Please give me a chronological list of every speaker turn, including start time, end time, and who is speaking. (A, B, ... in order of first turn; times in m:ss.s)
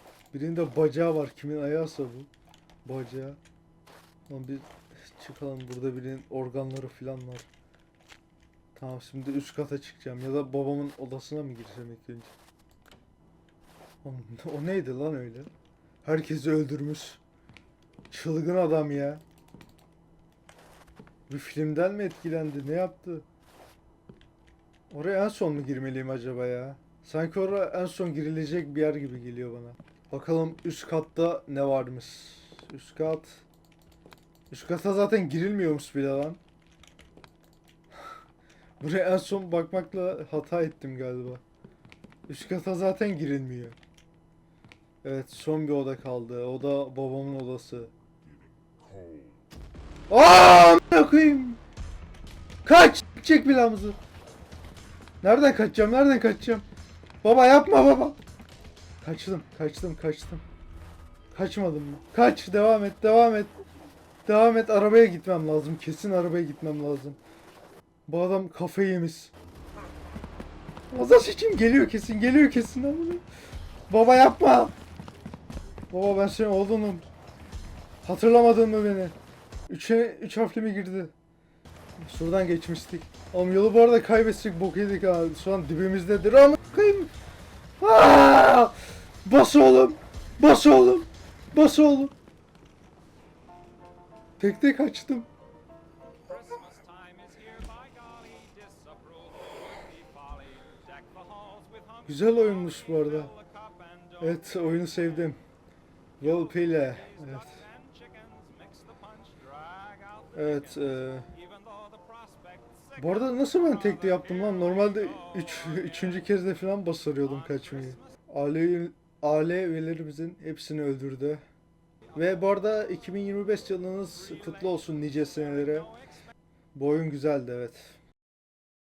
0:00.3-0:02.3 A
0:02.8-0:03.4 A
0:04.3-0:07.5 A
0:08.7-0:12.3 A
0:14.0-0:15.5 A
0:16.0-0:17.2 A
0:18.1-0:19.2 A
0:21.3-0:23.2 A
0:24.9-0:33.4 A
0:34.5-0:36.4 A
0:38.8-0:41.4 A
0:42.3-0:43.8 A
0:45.0-0:47.9 A
0:50.1-0:51.6 A
0:52.6-0:54.0 A
0:55.2-0:56.6 A
0:57.2-0:58.2 A
0:59.0-1:00.4 A
1:01.3-1:03.5 A
1:04.2-1:07.2 A
1:08.1-1:09.3 A
1:10.9-1:13.2 A
1:13.9-1:14.7 A
1:15.9-1:17.1 A
1:18.0-1:19.1 A
1:19.7-1:21.1 A
1:22.0-1:27.1 A
1:27.8-1:32.1 A
1:34.4-1:35.3 A
1:36.5-1:39.5 B
1:41.1-1:41.8 B
1:42.0-1:43.3 A
1:44.2-1:45.4 A
1:46.2-1:47.6 A
1:48.2-1:49.1 B
1:50.3-1:51.3 A
1:51.8-1:52.4 B
1:53.0-2:01.4 A
2:02.1-2:05.9 A
2:06.7-2:08.0 A